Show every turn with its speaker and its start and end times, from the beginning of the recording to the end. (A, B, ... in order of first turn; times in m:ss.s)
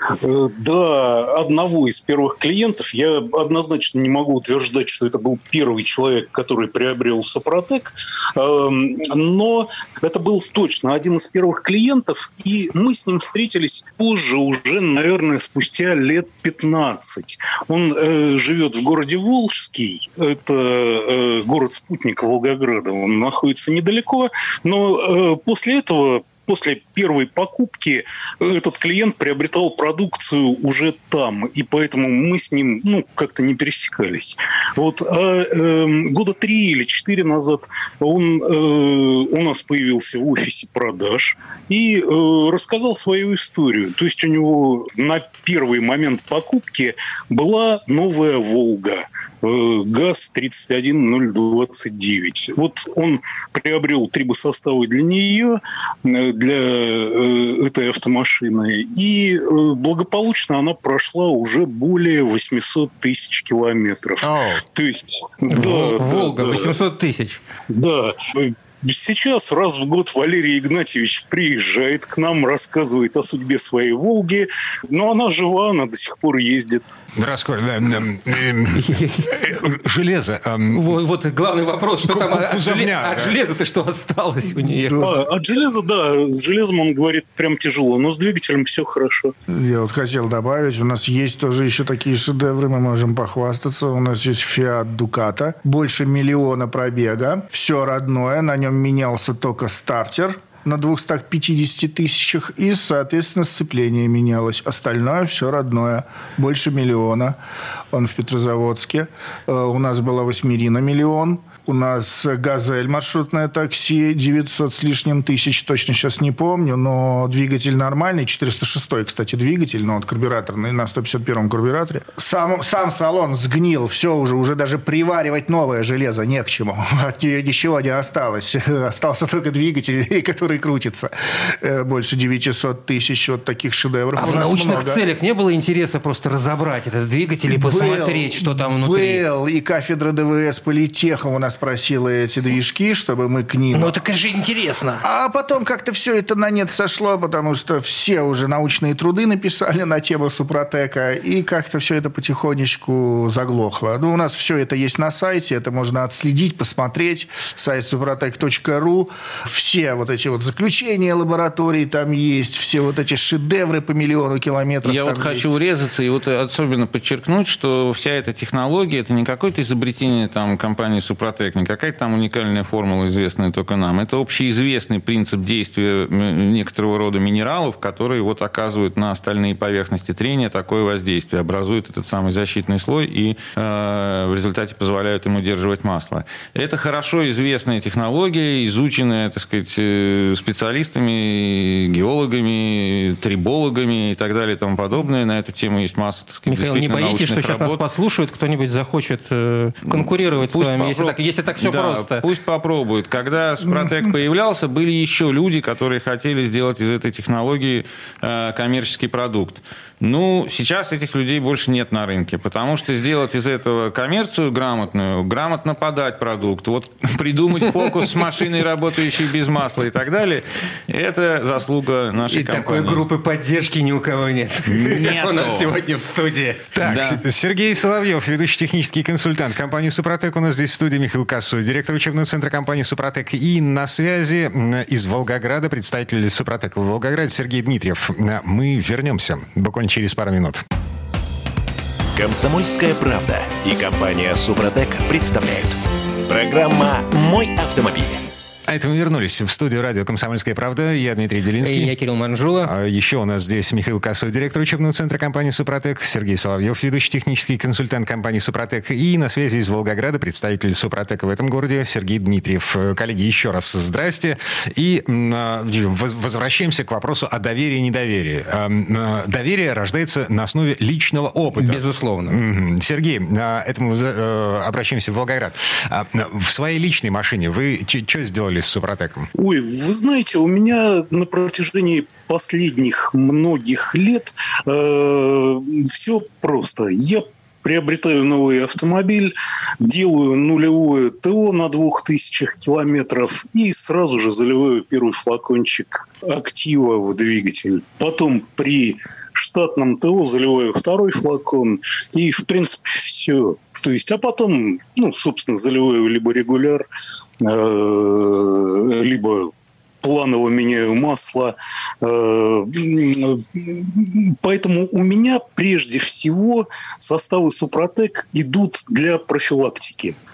0:00.2-1:06.8 A
1:04.2-1:04.6 B
1:05.5-1:07.4 C
1:07.7-1:17.0 A
1:17.2-1:21.0 B
1:18.8-1:19.4 C
1:20.7-1:25.1 C
1:22.0-1:23.4 B
1:24.8-1:25.2 D
1:25.0-1:29.3 A
1:29.5-1:47.4 D
1:47.9-2:15.0 D
2:14.2-2:19.2 C
2:17.5-2:24.0 D
2:23.7-2:25.0 C
2:25.0-2:45.5 D
2:44.8-3:17.8 E
3:16.5-3:22.2 C
3:20.0-3:43.1 E
3:23.6-3:24.1 D
3:42.3-3:46.6 C
3:44.7-3:45.8 E
3:46.7-4:00.6 B
3:46.8-3:47.2 E
4:02.2-4:08.3 F
4:08.7-4:11.9 B
4:11.6-4:12.7 C
4:12.6-4:39.3 B
4:31.6-4:32.4 C
4:39.4-5:06.9 A
5:07.4-5:20.2 A